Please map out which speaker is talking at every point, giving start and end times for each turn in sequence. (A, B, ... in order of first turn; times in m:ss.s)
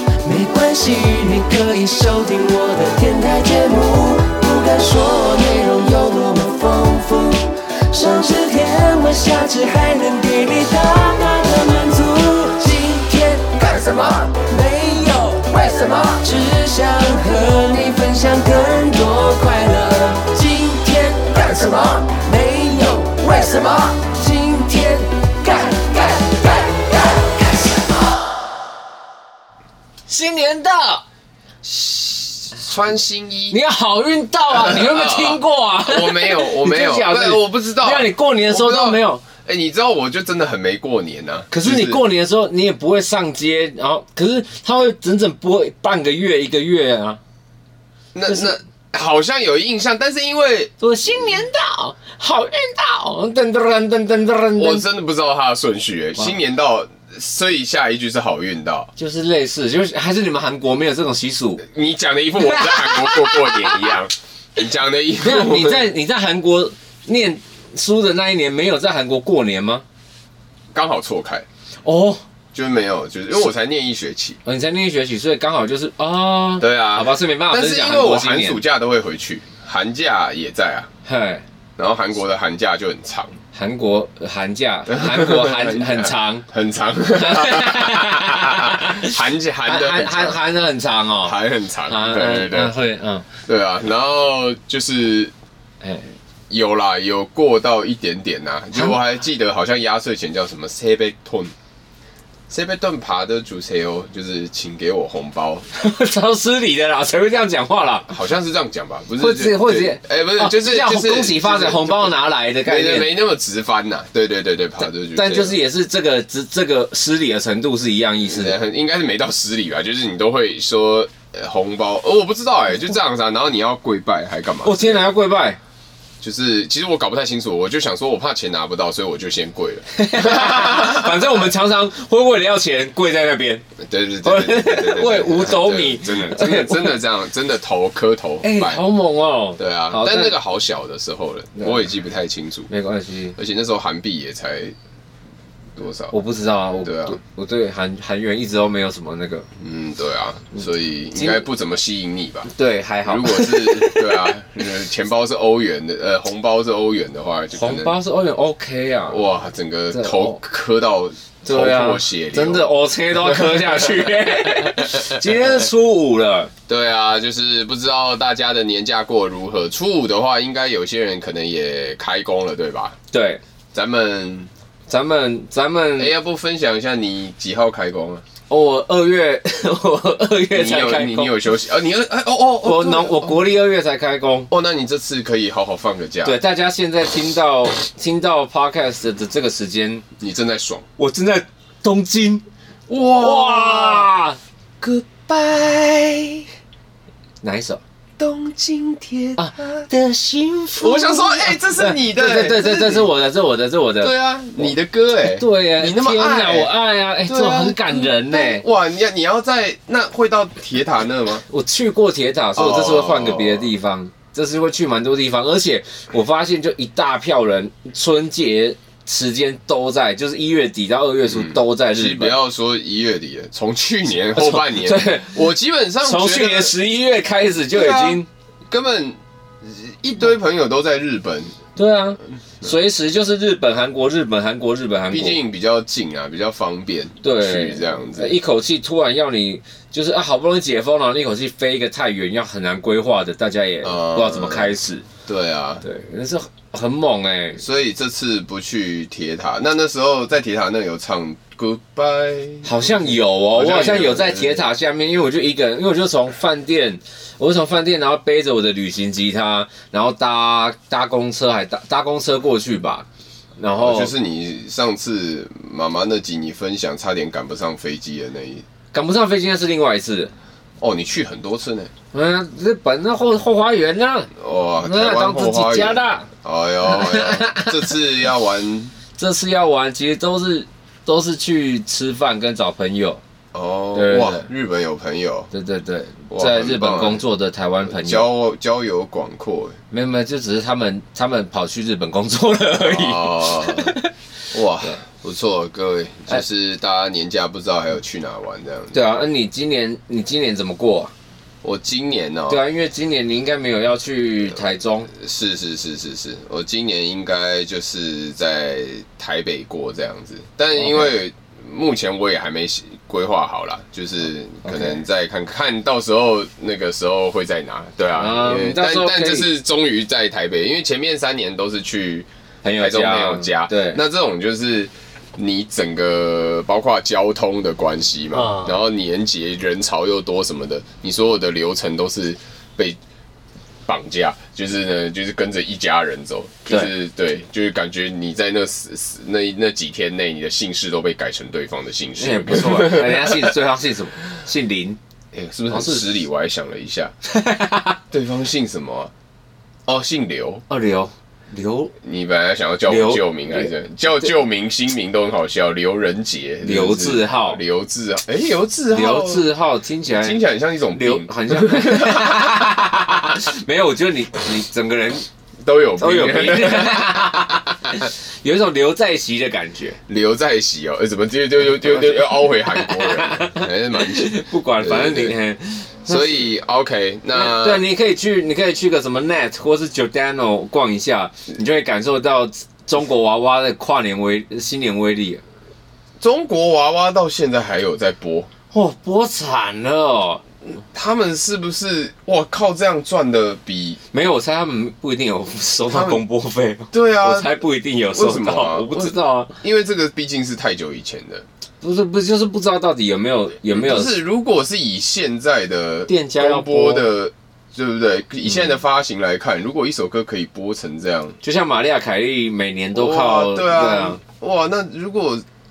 0:00.2-0:28.1 A
0:30.1-0:31.0 B
0:31.6-0:33.6 C
0:33.5-0:39.2 B
0:34.5-0:42.0 C
0:41.5-0:47.2 B
0:48.1-0:50.7 C
0:48.2-0:48.5 B
0:50.8-0:54.9 B
0:54.6-0:58.9 C
0:59.0-1:01.6 B
1:01.6-1:05.9 C
1:02.4-1:03.9 B
1:05.2-1:09.8 B
1:10.7-1:11.4 C
1:11.8-1:12.2 B
1:12.5-1:14.4 C
1:14.4-1:18.6 B
1:16.6-1:20.9 C
1:21.0-1:21.4 B
1:21.8-1:23.3 C
1:23.5-1:26.4 B
1:24.9-1:30.4 C
1:27.1-1:33.3 B
1:31.2-1:32.7 C
1:33.4-1:35.3 C
1:35.8-1:36.1 B
1:36.5-1:41.5 C
1:42.5-1:45.6 C
1:45.7-1:48.1 B
1:48.1-1:55.6 C
1:49.2-1:53.1 B
1:55.1-1:58.6 B
1:58.2-2:05.0 C
2:04.6-2:05.6 B
2:06.2-2:11.5 C
2:09.9-2:13.6 B
2:13.8-2:18.8 C
2:14.2-2:17.0 B
2:18.4-2:20.4 B
2:19.6-2:22.7 C
2:21.6-2:21.8 B
2:22.7-2:23.4 B
2:23.4-2:24.8 C
2:25.8-2:26.1 C
2:26.1-2:29.5 B
2:26.8-2:27.2 C
2:29.6-2:32.5 C
2:31.1-2:31.4 B
2:32.5-2:34.3 B
2:33.0-2:37.9 C
2:37.5-2:39.2 B
2:39.1-2:45.7 C
2:39.9-2:40.4 B
2:41.4-2:46.5 B
2:46.7-2:53.0 C
2:53.1-2:53.4 B
2:53.7-2:54.5 C
2:54.9-2:56.1 B
2:56.0-2:58.2 C
2:58.5-3:01.3 B
3:00.5-3:03.4 C
3:02.6-3:04.5 B
3:04.5-3:06.4 C
3:06.2-3:10.0 B
3:10.2-3:10.8 C
3:11.0-3:12.4 B
3:12.9-3:14.1 C
3:13.2-3:14.4 B
3:14.8-3:16.5 C
3:17.4-3:17.8 B
3:18.2-3:19.8 C
3:19.4-3:28.6 B
3:20.8-3:23.1 C
3:24.0-3:26.7 C
3:27.2-3:31.4 C
3:31.5-3:42.3 B
3:32.6-3:33.7 C
3:41.3-3:46.7 C
3:44.4-3:45.3 B
3:46.0-3:48.3 B
3:47.7-3:51.6 C
3:51.8-3:55.4 B
3:55.1-3:58.4 C
3:57.2-4:05.0 B
4:03.8-4:04.7 C
4:05.2-4:05.8 C
4:05.8-4:07.6 B
4:07.6-4:14.6 C
4:12.6-4:23.0 B
4:23.6-4:24.1 B
4:23.8-4:28.6 C
4:28.9-4:30.3 B
4:30.8-4:31.9 C
4:32.1-4:36.3 B
4:34.3-4:38.9 C
4:36.8-4:37.8 B
4:39.2-4:43.2 B
4:43.5-4:45.5 C
4:43.9-4:44.5 B
4:45.5-4:48.2 B
4:46.3-4:47.2 C
4:47.8-4:49.8 C
4:49.9-4:54.1 B
4:52.8-4:54.0 C
4:54.5-4:59.0 C
4:58.9-5:01.1 B
5:01.6-5:02.6 C
5:02.5-5:05.1 B
5:05.1-5:33.0 C
5:10.7-5:11.1 B
5:14.6-5:15.0 B
5:18.2-5:19.5 B
5:22.6-5:24.0 B
5:28.3-5:28.8 B
5:33.8-5:43.5 C
5:42.2-5:45.0 B
5:45.3-5:47.1 C
5:45.7-5:46.0 B
5:47.2-5:48.0 B
5:48.1-5:49.1 C
5:49.8-5:50.6 C
5:50.7-5:51.9 B
5:52.0-5:59.5 C
5:52.9-5:53.7 B
5:56.6-5:57.6 B
5:58.9-6:05.3 B
6:00.1-6:02.7 C
6:05.6-6:08.0 C
6:06.0-6:10.0 B
6:10.1-6:15.4 C
6:11.7-6:16.5 B
6:16.0-6:17.8 C
6:17.3-6:25.4 B
6:26.2-6:28.5 C
6:28.7-6:30.4 B
6:30.9-6:34.0 C
6:34.1-6:39.5 B
6:35.9-6:36.2 C
6:36.9-6:41.4 C
6:41.8-6:44.2 B
6:43.7-6:51.4 C
6:46.1-6:47.1 B
6:51.4-6:54.2 B
6:52.9-6:55.4 C